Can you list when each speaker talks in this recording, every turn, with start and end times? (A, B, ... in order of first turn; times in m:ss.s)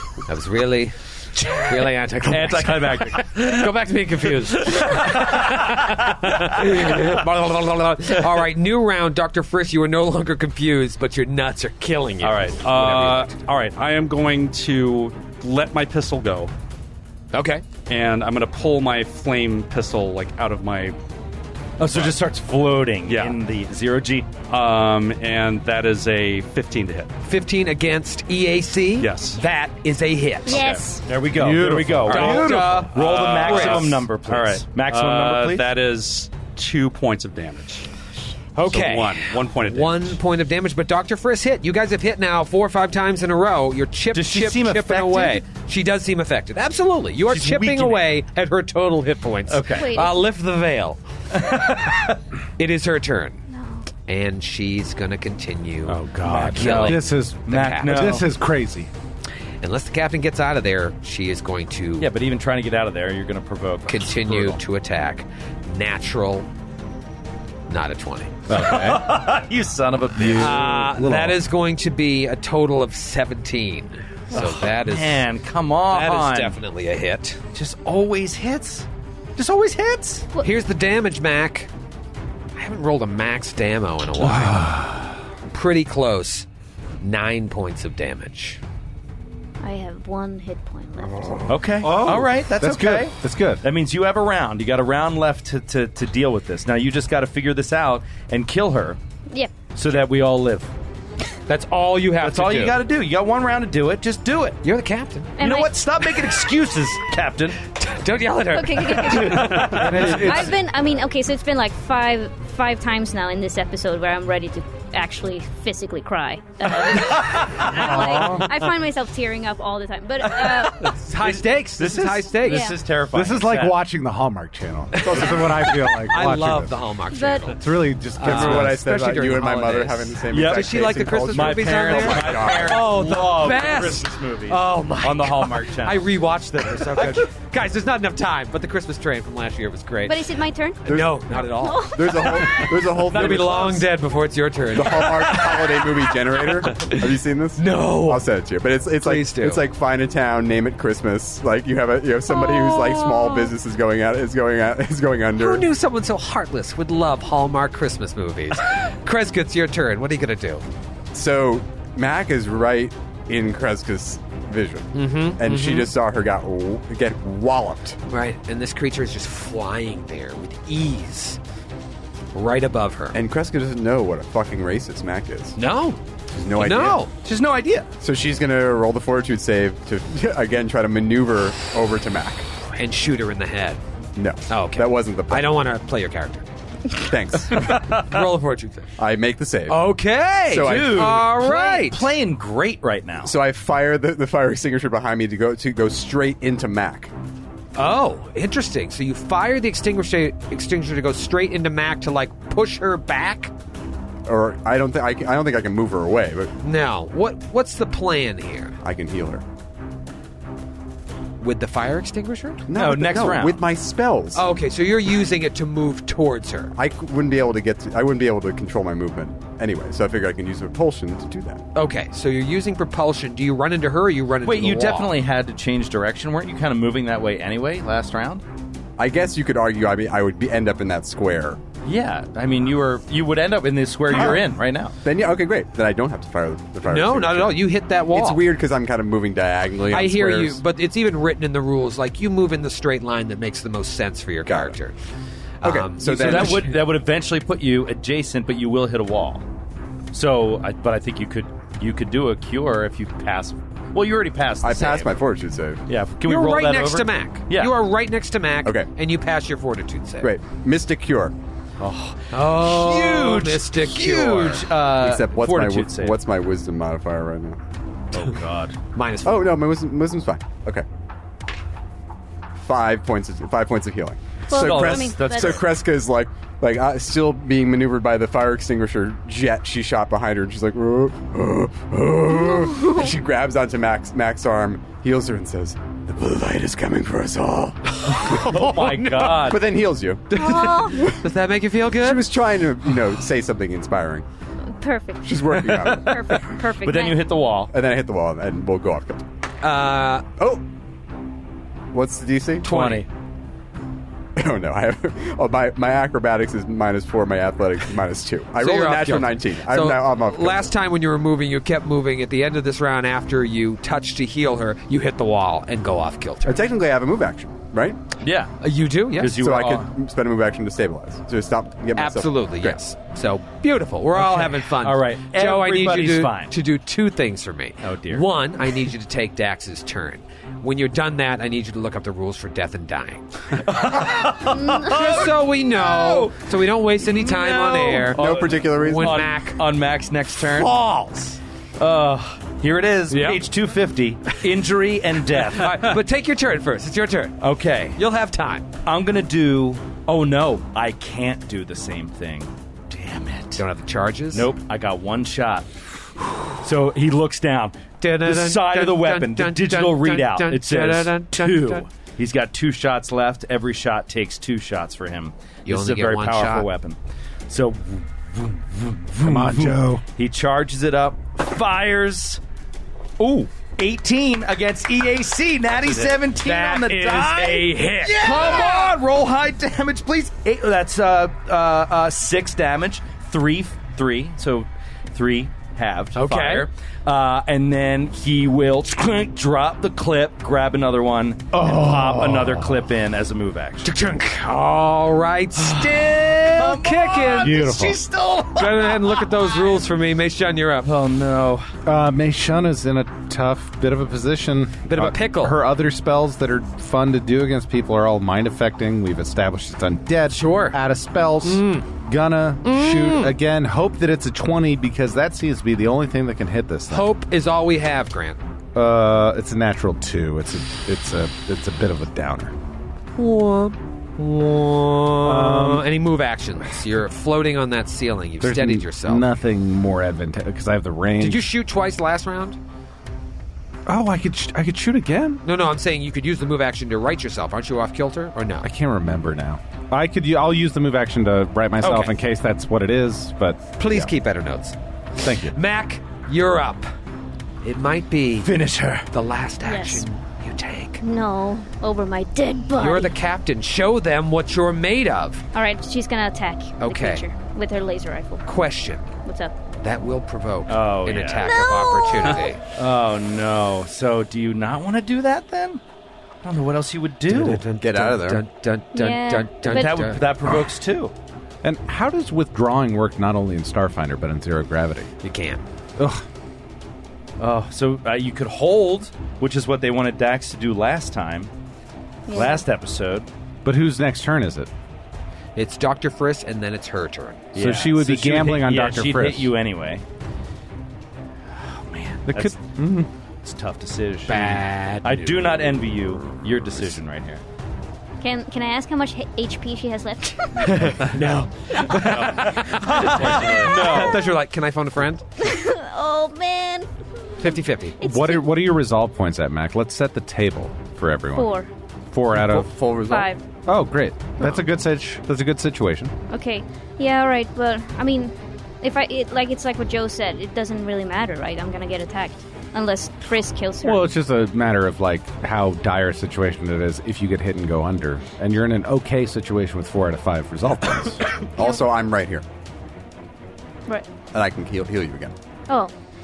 0:00.2-0:13.4 A
0:02.2-0:03.6 B
0:04.8-0:05.8 B
0:12.2-0:13.7 B
0:12.6-0:16.5 C
0:17.3-0:17.6 A
0:17.9-0:21.0 C
0:21.8-0:24.3 B
0:21.8-0:22.2 C
0:23.0-0:23.4 C
0:24.5-0:27.1 C
0:27.2-0:30.8 A
0:29.0-0:29.4 C
0:30.4-0:31.0 D
0:31.0-0:35.7 B
0:31.3-0:32.8 E
0:32.1-0:34.0 A
0:32.3-0:37.8 C
0:38.5-0:51.0 A
0:38.6-0:40.2 C
0:44.1-0:45.4 B
0:47.3-0:48.1 B
0:49.5-0:50.1 B
0:49.7-0:50.2 D
0:51.3-0:52.1 B
0:52.6-0:53.4 A
0:53.5-0:53.9 D
0:54.0-0:56.0 A
0:55.9-0:58.9 E
0:56.1-0:58.3 B
0:56.5-0:58.2 A
0:59.6-1:02.1 A
1:02.0-1:04.6 B
1:03.9-1:06.5 A
1:07.7-1:08.4 A
1:08.5-1:09.1 E
1:08.5-1:10.6 B
1:10.1-1:11.4 E
1:10.4-1:15.3 A
1:14.3-1:16.6 B
1:15.9-1:17.4 A
1:17.5-1:18.8 B
1:19.4-1:20.3 B
1:20.4-1:21.7 A
1:22.6-1:24.8 A
1:24.2-1:25.2 E
1:25.5-1:26.4 A
1:27.0-1:28.6 A
1:29.6-1:31.4 D
1:31.5-1:39.0 B
1:31.8-1:33.6 E
1:39.3-1:39.5 D
1:39.7-1:40.7 B
1:41.5-1:42.8 A
1:42.2-1:44.6 B
1:44.6-1:45.3 A
1:45.4-1:45.7 D
1:45.4-1:47.6 B
1:47.8-1:50.4 A
1:48.5-2:01.0 D
1:49.1-1:50.4 B
1:49.8-1:50.3 E
1:56.8-1:58.5 B
1:57.7-1:58.5 E
2:00.2-2:03.8 B
2:00.8-2:02.7 A
2:02.4-2:02.8 D
2:03.1-2:06.8 E
2:05.0-2:07.6 A
2:05.0-2:05.8 F
2:07.1-2:07.6 D
2:07.6-2:08.9 E
2:08.1-2:20.3 A
2:08.2-2:13.0 F
2:10.3-2:16.1 B
2:13.0-2:14.6 C
2:16.8-2:17.2 B
2:20.0-2:22.9 D
2:20.8-2:25.9 A
2:20.8-2:21.2 F
2:21.9-2:23.9 F
2:23.1-2:23.7 B
2:24.7-2:35.7 F
2:26.4-2:28.2 A
2:29.0-2:29.6 A
2:32.3-2:33.5 A
2:35.4-2:40.6 A
2:41.1-2:48.0 F
2:44.9-2:45.9 A
2:48.1-2:51.4 A
2:52.3-2:53.2 A
2:53.1-2:55.6 F
2:55.6-2:56.0 A
2:56.3-2:57.0 F
2:56.5-2:57.1 A
2:57.2-2:57.9 B
2:58.0-3:02.5 F
3:02.8-3:03.8 A
3:04.2-3:05.5 F
3:04.5-3:06.4 A
3:06.9-3:07.9 F
3:07.5-3:08.9 A
3:07.6-3:08.0 B
3:09.0-3:09.9 F
3:09.7-3:12.0 A
3:10.4-3:11.2 F
3:10.6-3:13.3 B
3:13.2-3:17.1 F
3:17.7-3:23.5 A
3:24.2-3:26.5 F
3:26.6-3:28.8 A
3:28.8-3:29.4 F
3:31.4-3:32.6 A
3:32.7-3:34.4 F
3:32.7-3:33.6 B
3:34.3-3:36.7 A
3:36.8-3:41.6 F
3:41.7-3:45.2 A
3:44.4-3:48.4 B
3:49.0-3:51.6 F
3:51.8-3:54.9 B
3:54.1-3:54.4 F
3:55.0-4:00.6 F
3:56.8-3:58.4 A
3:59.9-4:04.9 A
4:04.4-4:04.8 F
4:05.6-4:06.7 A
4:05.6-4:06.8 F
4:06.0-4:09.4 B
4:10.1-4:15.2 B
4:14.6-4:15.8 F
4:15.9-4:17.8 B
4:16.2-4:20.3 A
4:20.2-4:21.3 F
4:21.8-4:26.2 B
4:22.3-4:24.7 A
4:24.8-4:27.6 F
4:28.1-4:28.8 B
4:28.9-4:29.5 A
4:29.2-4:30.8 F
4:32.6-4:51.2 F
4:34.5-4:35.6 D
4:34.5-4:35.7 B
4:42.5-4:43.1 D
4:48.0-4:49.5 A
4:48.1-4:49.7 B
4:50.3-4:52.3 A
4:50.3-4:51.1 D
4:52.0-4:54.2 F
4:54.8-4:57.3 D
4:55.2-4:56.2 F
4:55.5-4:57.7 B
4:57.7-4:59.2 F
4:59.6-5:00.3 A
5:00.4-5:00.6 F
5:01.9-5:02.7 F
5:02.6-5:03.1 A
5:02.6-5:03.0 B
5:04.4-5:10.7 F
5:08.6-5:16.6 A
5:16.4-5:18.0 F
5:18.2-5:18.5 B
5:18.6-5:19.3 A
5:19.1-5:19.9 B
5:19.2-5:22.8 F
5:22.0-5:39.6 A
5:24.1-5:26.5 B
5:27.8-5:28.2 B
5:33.5-5:40.7 B
5:38.0-5:39.3 F
5:40.4-5:41.4 A
5:41.8-5:45.9 B
5:43.1-5:43.4 A
5:45.5-5:47.4 A
5:47.4-5:48.0 B
5:47.9-5:48.7 A
5:48.8-5:53.6 B
5:53.5-5:54.5 A
5:54.3-5:55.7 B
5:56.5-6:07.0 B
5:58.0-6:01.8 A
6:05.6-6:06.7 A
6:07.5-6:12.4 B
6:09.2-6:10.0 E
6:13.2-6:33.9 B
6:15.9-6:18.9 A
6:26.1-6:26.7 A
6:31.6-6:32.2 A
6:31.7-6:32.4 E
6:33.8-6:37.7 A
6:35.6-6:39.5 B
6:37.4-6:38.0 E
6:38.5-6:40.9 A
6:40.8-6:41.7 B
6:41.8-6:57.1 E
6:44.9-6:45.6 A
6:50.3-6:50.8 A
6:51.4-6:51.8 A
6:52.6-6:53.3 A
6:56.9-6:58.4 A
6:58.7-7:02.5 E
7:03.2-7:09.2 A
7:05.2-7:05.8 E
7:08.4-7:11.5 E
7:11.2-7:12.6 A
7:13.9-7:15.4 E
7:15.4-7:18.6 A
7:18.6-7:24.1 E
7:21.8-7:22.2 A
7:23.8-7:26.9 A
7:25.2-7:25.5 E
7:27.6-7:28.5 A
7:28.4-7:29.1 B
7:29.1-7:31.0 A
7:29.6-7:30.0 D
7:31.0-7:33.2 D
7:32.8-7:35.4 A
7:35.5-7:38.4 D
7:36.8-7:37.2 A
7:38.4-7:39.1 A
7:39.2-7:39.5 D
7:39.8-7:42.6 A
7:40.7-7:45.8 B
7:41.5-7:42.4 D
7:46.4-7:47.6 B
7:47.3-7:50.2 A
7:47.8-7:48.4 F
7:48.9-7:49.9 D
7:49.6-7:51.1 B
7:51.6-7:55.1 E
7:55.2-7:55.6 A
7:56.0-7:56.2 E
7:57.4-8:01.5 B
8:02.2-8:02.6 D
8:02.3-8:03.3 B
8:03.6-8:04.7 E
8:05.6-8:07.4 A
8:07.5-8:10.0 B
8:07.5-8:09.5 E
8:11.5-8:12.8 B
8:12.3-8:13.1 E
8:13.4-8:17.4 B
8:14.3-8:15.6 A
8:18.2-8:21.0 D
8:20.6-8:25.2 A
8:21.9-8:24.2 B
8:22.1-8:23.8 C
8:25.4-8:26.9 D
8:27.4-8:28.0 A
8:27.4-8:28.6 D
8:28.0-8:31.5 E
8:31.3-8:31.7 D
8:32.1-8:32.7 E
8:32.3-8:33.3 F
8:33.0-8:33.4 D
8:33.6-8:36.1 E
8:36.3-8:44.1 D
8:43.8-8:51.2 E
8:51.5-8:52.4 F
8:54.3-8:55.3 F
8:55.7-8:55.9 D